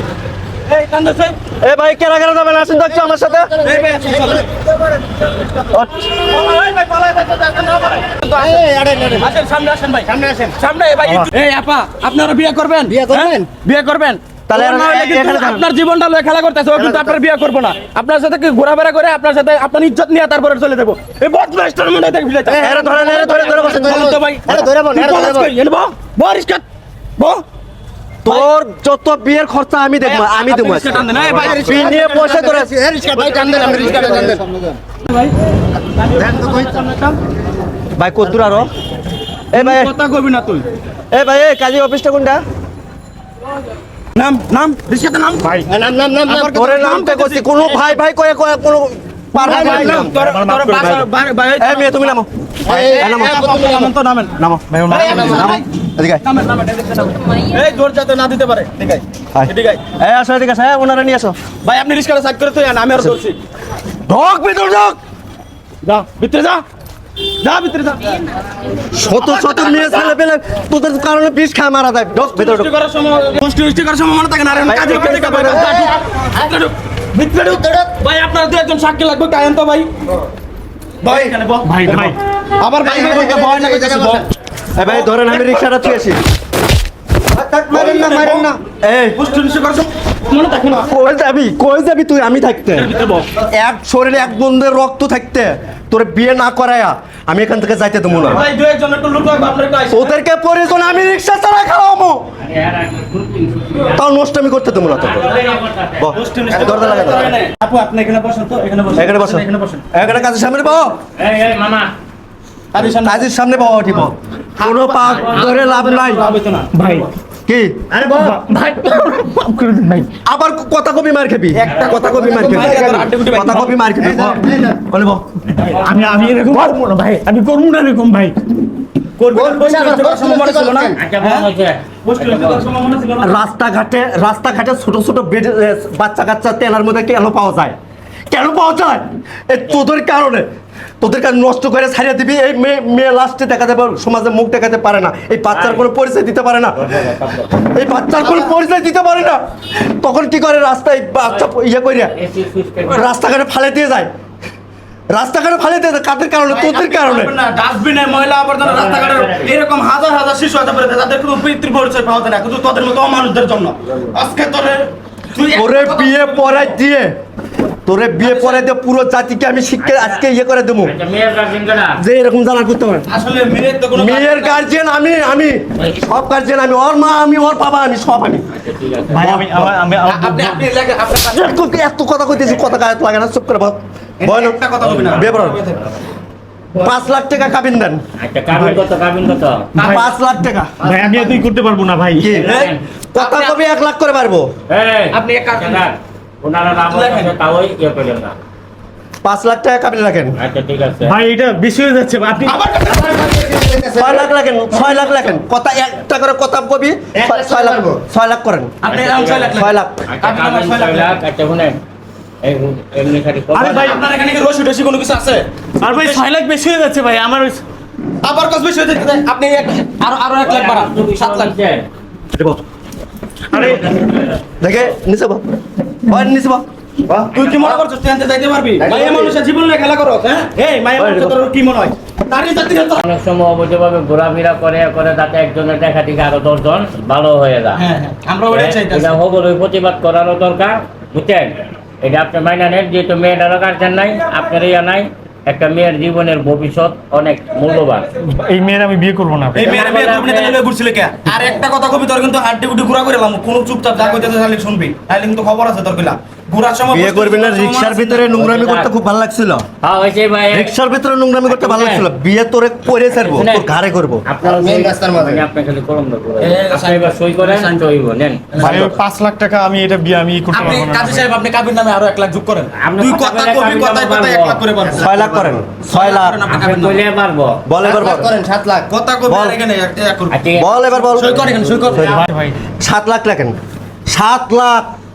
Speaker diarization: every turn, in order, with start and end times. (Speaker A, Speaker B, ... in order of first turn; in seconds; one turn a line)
Speaker A: 0.7-1.4
Speaker B: 1.6-3.6
Speaker A: 3.6-4.5
Speaker A: 6.2-26.6
Speaker C: 8.4-9.3
Speaker C: 10.2-10.4
Speaker C: 12.9-13.5
Speaker B: 14.5-15.7
Speaker C: 22.5-25.5
Speaker B: 22.5-24.2
Speaker A: 27.2-27.4
Speaker B: 28.2-32.7
Speaker A: 30.0-32.4
Speaker C: 31.4-34.8
Speaker A: 33.0-34.4
Speaker A: 35.0-35.3
Speaker A: 36.0-37.2
Speaker C: 36.2-36.6
Speaker B: 38.0-38.7
Speaker B: 39.5-39.9
Speaker A: 39.5-40.7
Speaker B: 41.1-42.4
Speaker A: 44.2-45.6
Speaker C: 45.7-46.5
Speaker A: 46.2-47.8
Speaker B: 46.4-50.2
Speaker C: 49.4-50.2
Speaker A: 49.4-54.4
Speaker D: 50.2-50.8
Speaker B: 50.7-51.1
Speaker B: 51.6-52.3
Speaker C: 52.7-53.9
Speaker B: 52.8-53.4
Speaker B: 54.4-56.2
Speaker A: 54.9-55.7
Speaker C: 55.0-55.5
Speaker A: 56.2-59.8
Speaker B: 59.4-61.4
Speaker A: 61.6-63.4
Speaker B: 64.1-65.0
Speaker A: 65.8-66.6
Speaker A: 67.4-68.3
Speaker B: 68.9-72.7
Speaker A: 69.1-70.1
Speaker A: 72.2-79.9
Speaker B: 74.7-75.8
Speaker C: 77.5-77.9
Speaker A: 81.0-84.3
Speaker D: 81.7-82.2
Speaker C: 82.8-84.2
Speaker B: 84.8-86.2
Speaker A: 84.8-85.8
Speaker B: 87.3-89.2
Speaker A: 87.7-88.6
Speaker A: 89.1-90.9
Speaker B: 90.8-98.5
Speaker A: 92.8-93.3
Speaker A: 98.2-100.2
Speaker B: 99.9-102.2
Speaker E: 102.4-104.0
Speaker B: 103.9-105.3
Speaker E: 104.9-106.2
Speaker B: 106.0-107.3
Speaker A: 106.1-109.9
Speaker E: 106.7-107.2
Speaker B: 109.0-111.0
Speaker E: 111.2-111.9
Speaker A: 112.7-113.3
Speaker B: 113.0-116.3
Speaker A: 114.6-117.1
Speaker D: 116.7-117.1
Speaker B: 117.5-117.9
Speaker D: 117.9-120.1
Speaker C: 118.0-118.4
Speaker B: 120.2-125.4
Speaker A: 121.5-123.9
Speaker E: 121.7-122.2
Speaker C: 124.1-124.8
Speaker D: 125.7-128.4
Speaker A: 129.2-131.5
Speaker C: 129.3-131.0
Speaker E: 131.0-132.6
Speaker A: 132.1-133.4
Speaker B: 133.2-137.8
Speaker B: 138.3-140.5
Speaker B: 141.0-152.1
Speaker E: 145.5-145.9
Speaker E: 146.7-147.6
Speaker E: 152.0-153.1
Speaker B: 152.9-154.1
Speaker B: 155.1-157.3
Speaker A: 156.5-166.8
Speaker E: 158.6-159.5
Speaker B: 165.5-167.2
Speaker B: 167.8-170.9
Speaker A: 168.2-168.7
Speaker E: 169.8-170.2
Speaker E: 170.8-172.0
Speaker B: 172.0-173.1
Speaker A: 173.1-174.6
Speaker B: 173.9-178.5
Speaker E: 178.5-179.3
Speaker B: 179.2-179.8
Speaker D: 179.2-180.6
Speaker A: 180.1-181.5
Speaker B: 181.3-185.6
Speaker A: 184.2-185.8
Speaker B: 186.8-188.0
Speaker E: 188.2-189.7
Speaker D: 188.5-188.8
Speaker A: 189.8-190.1
Speaker B: 189.8-190.8
Speaker D: 190.8-192.3
Speaker B: 192.2-194.5
Speaker E: 192.3-192.8
Speaker A: 192.4-193.6
Speaker E: 194.7-198.4
Speaker A: 195.1-195.9
Speaker A: 196.9-197.3
Speaker B: 199.2-200.4
Speaker E: 200.4-201.2
Speaker D: 201.0-202.6
Speaker A: 202.4-203.7
Speaker C: 203.1-204.2
Speaker B: 203.9-208.8
Speaker C: 207.2-208.0
Speaker A: 208.8-211.2
Speaker E: 208.9-211.8
Speaker B: 209.5-210.0
Speaker E: 212.4-214.0
Speaker D: 213.6-214.0
Speaker A: 213.6-216.2
Speaker D: 215.8-217.6
Speaker A: 218.2-221.6
Speaker E: 220.4-221.9
Speaker B: 222.3-222.6
Speaker D: 223.5-223.9
Speaker E: 223.5-224.2
Speaker B: 224.6-225.5
Speaker B: 226.1-226.7
Speaker A: 227.2-233.0
Speaker E: 227.4-227.7
Speaker B: 231.0-231.4
Speaker E: 233.0-237.8
Speaker A: 237.8-239.2
Speaker E: 238.5-248.1
Speaker D: 248.3-249.8
Speaker A: 249.5-258.3
Speaker E: 249.6-250.6
Speaker B: 256.9-259.6
Speaker E: 258.4-258.9
Speaker E: 259.8-260.7
Speaker B: 260.5-264.2
Speaker E: 261.5-262.1
Speaker E: 263.2-263.7
Speaker E: 264.3-268.5
Speaker C: 264.4-265.4
Speaker A: 266.4-267.9
Speaker A: 268.5-269.0
Speaker D: 268.6-271.3
Speaker A: 270.5-275.1
Speaker E: 272.8-274.6
Speaker B: 275.0-276.4
Speaker C: 275.1-275.5
Speaker A: 275.8-277.0
Speaker E: 276.5-277.7
Speaker B: 277.7-278.3
Speaker C: 277.8-278.9
Speaker A: 278.8-280.4
Speaker B: 279.3-279.6
Speaker E: 280.3-281.1
Speaker B: 280.6-282.3
Speaker A: 281.1-282.2
Speaker D: 282.0-282.6
Speaker B: 282.8-284.9